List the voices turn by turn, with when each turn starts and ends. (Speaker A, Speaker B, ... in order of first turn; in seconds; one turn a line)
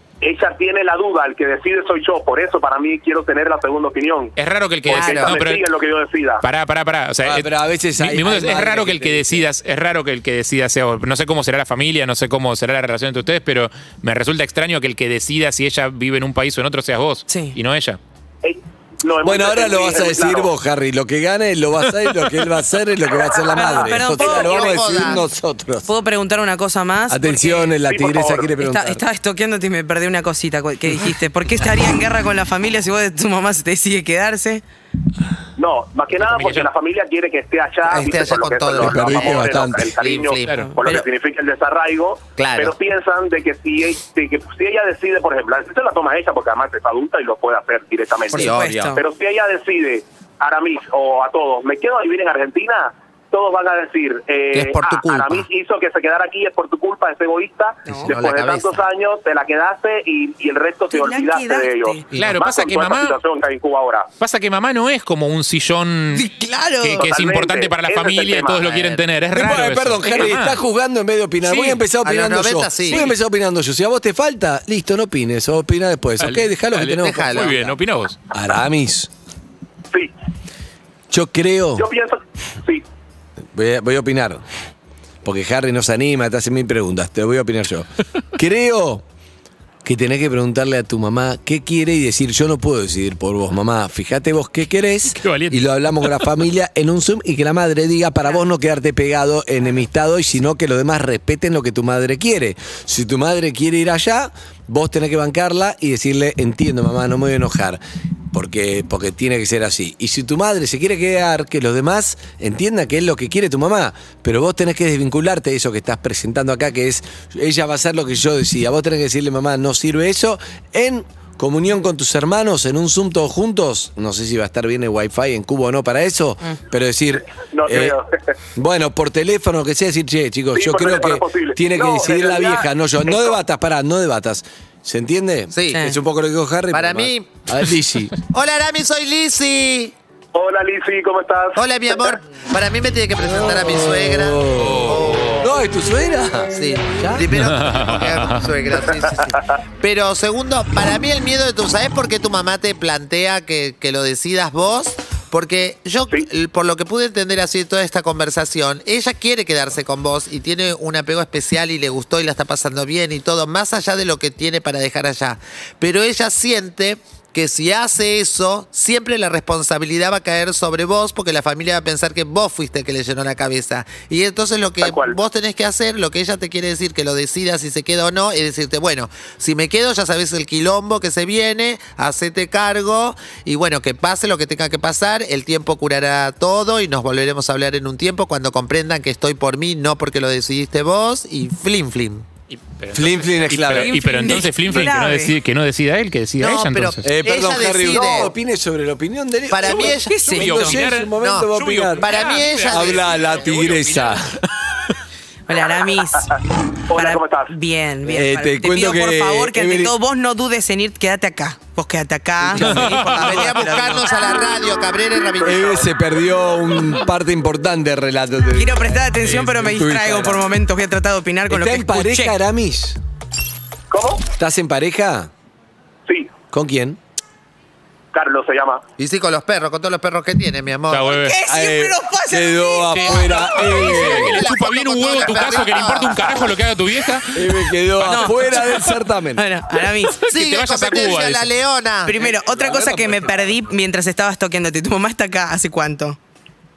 Speaker A: 0.2-4.3
Speaker B: 4.3-5.6
Speaker A: 4.9-6.4
Speaker C: 4.9-5.3
Speaker B: 6.4-18.0
Speaker D: 7.2-9.5
Speaker E: 17.3-17.6
Speaker A: 18.4-20.5
Speaker D: 19.2-25.9
Speaker E: 23.6-24.5
Speaker C: 24.0-25.2
Speaker E: 25.9-27.6
Speaker D: 27.1-29.0
Speaker A: 27.8-28.5
Speaker E: 28.6-34.6
Speaker A: 35.5-64.1
Speaker B: 36.1-36.7
Speaker C: 37.8-40.6
Speaker D: 38.8-39.9
Speaker B: 40.5-40.7
Speaker C: 42.4-42.7
Speaker C: 48.3-48.9
Speaker E: 48.4-49.0
Speaker C: 54.5-55.5
Speaker E: 57.9-58.1
Speaker C: 58.1-58.8
Speaker E: 60.9-62.0
Speaker B: 62.1-63.2
Speaker B: 64.2-66.3
Speaker E: 66.1-67.0
Speaker B: 66.8-70.6
Speaker A: 67.0-69.0
Speaker D: 69.3-77.3
Speaker B: 71.4-71.8
Speaker C: 72.0-73.1
Speaker B: 76.2-78.2
Speaker C: 77.0-77.7
Speaker D: 78.3-79.1
Speaker D: 81.1-81.8
Speaker A: 81.8-82.8
Speaker D: 83.5-84.4
Speaker D: 85.2-89.0
Speaker D: 89.8-107.8
Speaker B: 95.1-96.3
Speaker D: 108.3-128.0
Speaker A: 127.4-128.3
Speaker D: 128.5-138.1
Speaker A: 130.5-133.4
Speaker C: 135.5-135.9
Speaker E: 135.7-136.0
Speaker C: 136.7-137.3
Speaker C: 138.3-139.9
Speaker A: 140.3-142.2
Speaker C: 141.6-145.5
Speaker D: 144.0-147.2
Speaker B: 144.6-145.4
Speaker C: 146.5-192.2
Speaker B: 147.3-148.5
Speaker A: 174.8-175.1
Speaker B: 192.5-197.1
Speaker D: 192.9-194.0
Speaker E: 193.8-195.3
Speaker C: 196.4-198.3
Speaker D: 197.0-204.3
Speaker C: 199.5-200.4
Speaker E: 199.7-200.8
Speaker B: 200.3-204.6
Speaker C: 201.2-203.1
Speaker E: 205.5-206.3
Speaker A: 206.2-207.5
Speaker E: 206.9-213.9
Speaker D: 208.1-209.9
Speaker D: 212.4-213.1
Speaker B: 212.6-213.4
Speaker C: 212.8-215.8
Speaker A: 215.3-215.8
Speaker D: 215.4-220.5
Speaker E: 218.5-222.3
Speaker D: 221.5-223.0
Speaker A: 223.9-224.2
Speaker D: 224.4-225.3
Speaker A: 226.1-226.3
Speaker D: 226.5-227.0
Speaker A: 228.1-228.8
Speaker C: 229.0-231.2
Speaker B: 230.9-231.4
Speaker E: 231.2-233.8
Speaker D: 231.4-234.4
Speaker B: 232.9-238.7
Speaker C: 233.8-236.6
Speaker D: 237.3-239.4
Speaker E: 238.1-240.2
Speaker B: 240.2-241.5
Speaker C: 240.3-242.2
Speaker E: 242.1-246.2
Speaker D: 242.1-243.4